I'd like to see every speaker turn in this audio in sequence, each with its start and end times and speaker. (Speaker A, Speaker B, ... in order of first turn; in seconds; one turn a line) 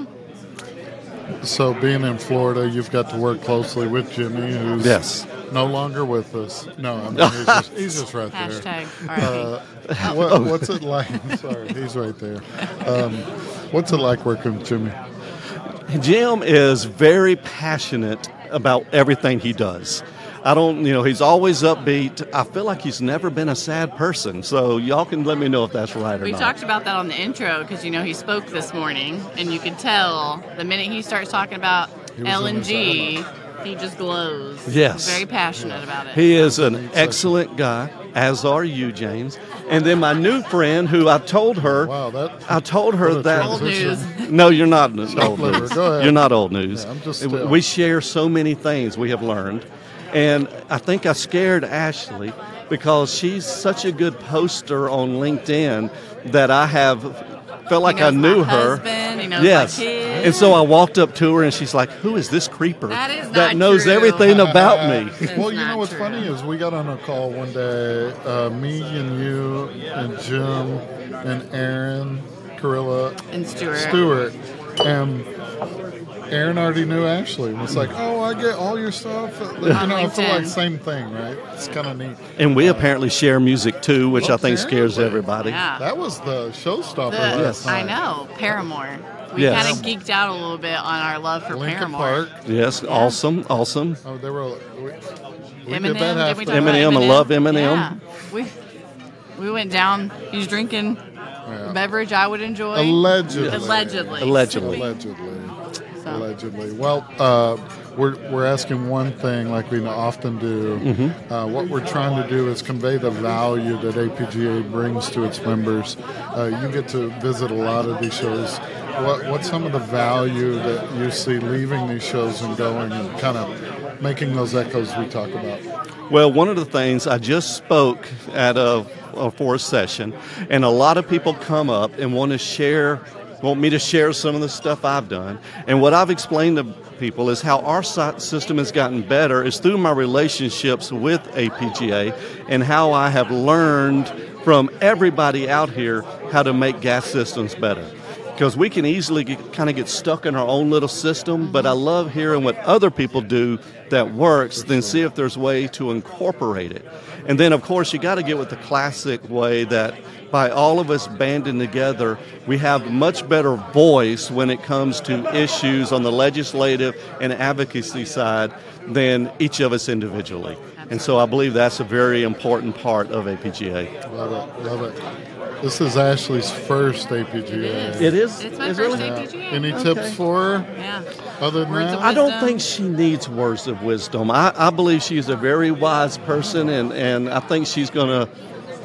Speaker A: 1.4-14.9
Speaker B: 4.8-5.2
Speaker B: 7.1-7.7
Speaker C: 8.3-9.5
Speaker B: 9.9-10.7
Speaker B: 15.9-26.5
Speaker C: 26.2-36.3
Speaker A: 32.1-33.2
Speaker B: 34.7-35.2
Speaker A: 35.5-37.3
Speaker B: 36.1-41.9
Speaker A: 41.6-44.1
Speaker B: 42.5-65.3
Speaker C: 43.2-44.3
Speaker A: 45.1-47.6
Speaker C: 57.8-60.6
Speaker A: 60.1-60.6
Speaker C: 62.9-66.3
Speaker A: 64.2-73.2
Speaker C: 73.3-74.0
Speaker A: 73.7-75.3
Speaker A: 76.3-82.9
Speaker C: 79.7-80.6
Speaker B: 82.4-85.6
Speaker A: 84.1-88.0
Speaker C: 85.4-85.8
Speaker C: 87.1-92.3
Speaker B: 87.2-87.9
Speaker B: 89.3-89.9
Speaker A: 89.4-89.9
Speaker A: 91.5-92.3
Speaker B: 92.4-94.0
Speaker C: 92.8-93.2
Speaker A: 94.0-95.0
Speaker A: 95.7-97.0
Speaker C: 95.7-98.5
Speaker B: 96.4-97.9
Speaker C: 99.4-101.0
Speaker A: 101.5-101.8
Speaker C: 101.6-104.9
Speaker A: 102.7-105.5
Speaker B: 103.3-104.8
Speaker A: 106.1-125.6
Speaker B: 110.8-111.1
Speaker B: 126.1-173.9
Speaker A: 154.6-155.0
Speaker C: 170.8-171.1
Speaker A: 174.1-175.0
Speaker A: 175.6-178.2
Speaker C: 177.5-179.9
Speaker B: 177.9-180.2
Speaker A: 178.8-180.7
Speaker C: 180.8-181.1
Speaker A: 181.4-182.2
Speaker C: 181.7-182.7
Speaker B: 182.0-188.3